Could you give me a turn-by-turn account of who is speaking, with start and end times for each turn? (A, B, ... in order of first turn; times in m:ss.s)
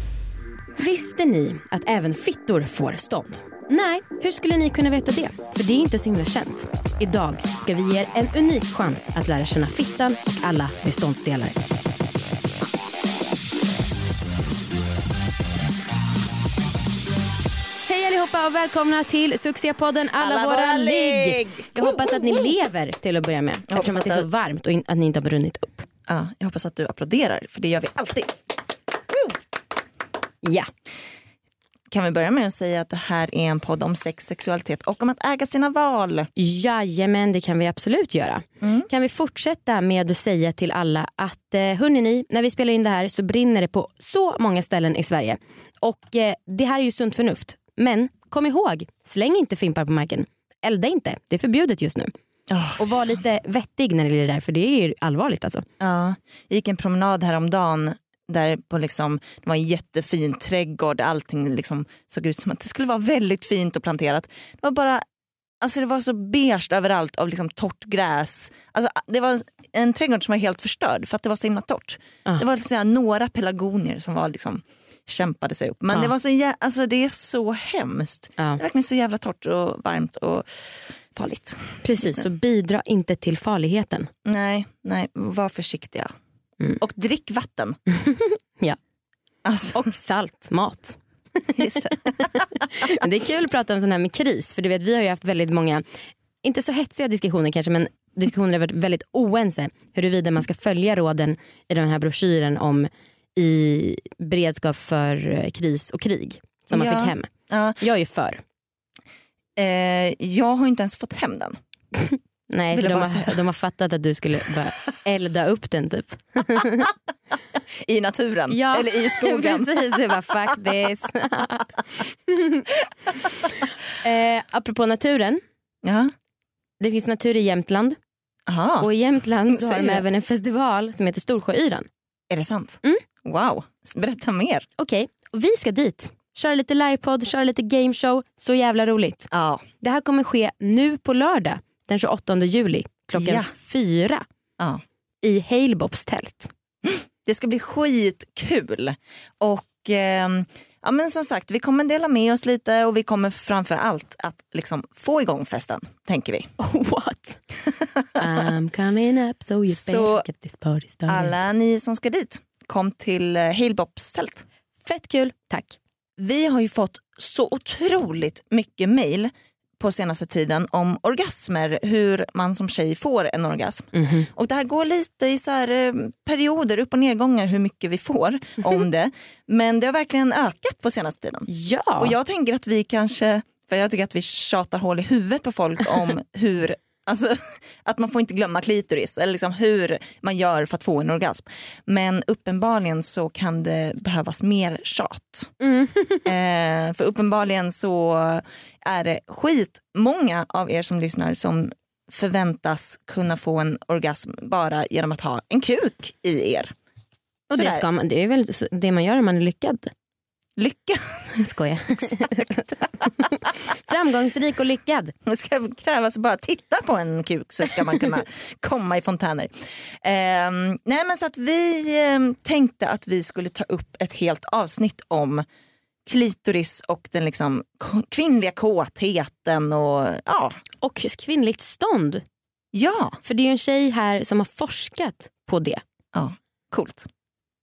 0:00.8-0:11.6 A
0:17.8-0:25.9 A
0:20.2-0:22.5 B
0:23.7-0:24.3 B
0:26.1-0:28.4 B
0:30.4-0:30.7 A
0:31.9-0:36.3 B
0:36.4-0:52.1 A
0:38.6-0:38.9 B
0:52.5-0:53.2 B
0:52.8-0:55.6 A
0:55.8-1:05.0 B
1:05.6-1:22.2 B
1:21.8-1:24.1 A
1:24.2-1:26.1 B
1:26.8-1:27.8 B
1:27.9-1:28.8 A
1:29.4-1:29.9 B
1:29.7-1:35.8 A
1:31.6-1:32.9 B
1:36.4-1:48.4 A
1:46.7-1:47.8 B
1:49.6-1:51.6 B
1:52.0-1:56.9 A
1:52.7-1:53.4 B
1:57.5-2:00.1 B
1:58.5-2:02.7 A
2:04.0-2:05.4 A
2:05.8-2:06.1 B
2:06.8-2:08.0 A
2:08.5-2:08.9 B
2:08.8-2:11.9 A
2:09.5-2:10.0 B
2:12.3-2:14.7 B
2:14.8-2:19.3 A
2:19.3-2:19.6 B
2:19.8-2:24.2 A
2:23.2-2:23.5 B
2:25.2-2:26.5 A
2:26.8-2:36.5 B
2:36.6-2:37.4 A
2:38.2-2:41.4 A
2:39.7-2:40.3 B
2:41.1-2:44.4 B
2:44.8-2:45.8 A
2:46.2-3:01.5 B
2:53.9-2:54.3 A
3:01.5-3:02.2 A
3:02.0-3:15.5 B
3:15.6-3:16.2 A
3:16.2-3:26.7 B
3:27.5-3:29.9 A
3:27.6-3:27.8 B
3:30.6-3:31.4 B
3:31.4-3:35.1 A
3:35.3-3:45.4 B
3:46.1-3:50.6 B
3:50.8-3:52.2 A
3:52.7-3:53.2 B
3:53.2-3:55.8 A
3:56.1-3:57.1 B